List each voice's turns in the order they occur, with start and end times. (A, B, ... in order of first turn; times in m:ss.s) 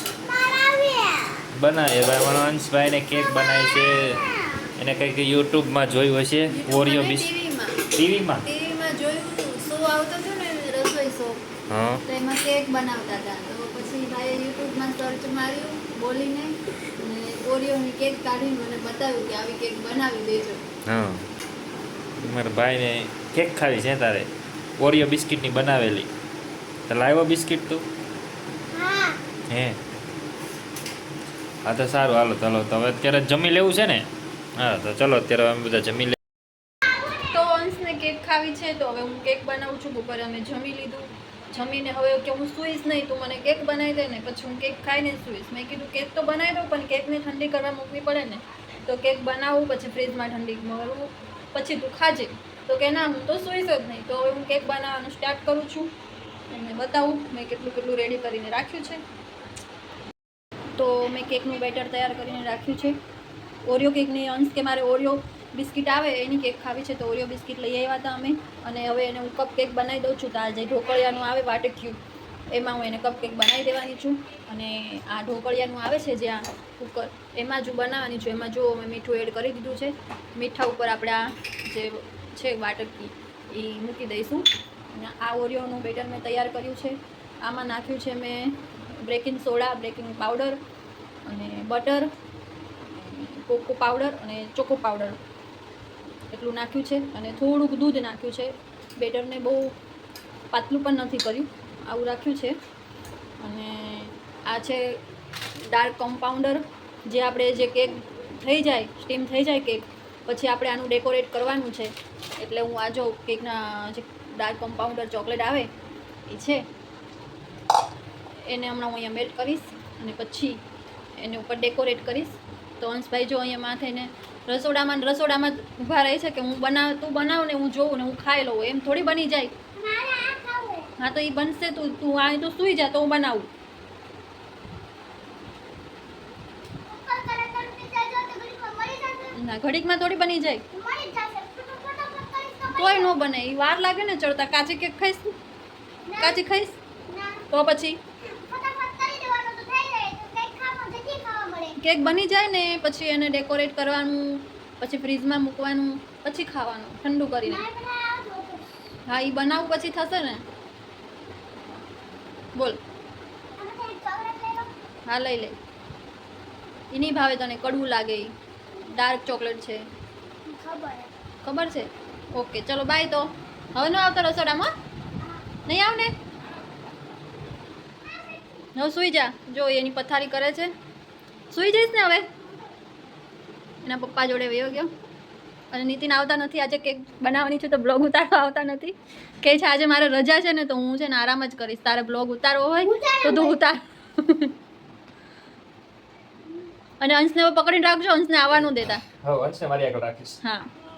0:00.2-0:01.5 A
0:01.5-0:04.2 B
0:04.1-0:04.6 A
0:04.8-0:07.3 B
0:06.5-0:07.8 C
0:07.9-0:08.4 B
0:08.4-0:11.4 C
0:11.7-0:12.0 B
0:12.1-0:20.6 C
0:20.9-0:21.3 B
0:22.2-0:26.1 B
0:26.9-0:27.8 B
0:28.7-0:29.2 A
0:29.5-0:29.8 B
0:31.6-0:36.2 B
0:37.3-0:55.9 C
0:56.5-0:59.0 C
1:00.8-1:03.0 C
1:03.7-1:12.0 C
1:12.5-1:30.6 C
1:31.2-1:32.1 C
1:32.9-1:35.2 C
1:36.3-1:39.8 C
1:40.5-1:42.5 C
1:43.4-1:45.0 C
1:45.7-1:55.7 C
1:56.3-1:56.6 C
1:58.5-2:00.6 C
2:01.2-2:09.5 C
2:09.8-2:10.9 A
2:11.0-2:13.5 C
2:16.9-2:19.4 A
2:19.4-2:20.6 C
2:20.7-2:23.2 A
2:22.8-2:25.3 C
2:26.1-2:26.4 A
2:26.2-2:26.8 C
2:27.1-2:27.4 A
2:27.5-2:28.0 C
2:28.2-2:31.8 A
2:31.8-2:37.6 C
2:37.4-2:38.6 A
2:39.1-2:40.4 C
2:43.6-2:44.7 A
2:45.1-2:45.6 C
2:46.9-2:48.3 C
2:49.0-2:49.8 C
2:50.5-2:51.1 A
2:51.4-2:54.7 C
2:55.7-2:56.1 C
2:58.8-3:00.7 C
3:01.5-3:02.3 C
3:03.8-3:04.9 C
3:05.7-3:14.5 C
3:12.8-3:13.6 A
3:17.0-3:19.0 C
3:19.1-3:20.4 B
3:20.4-3:20.7 C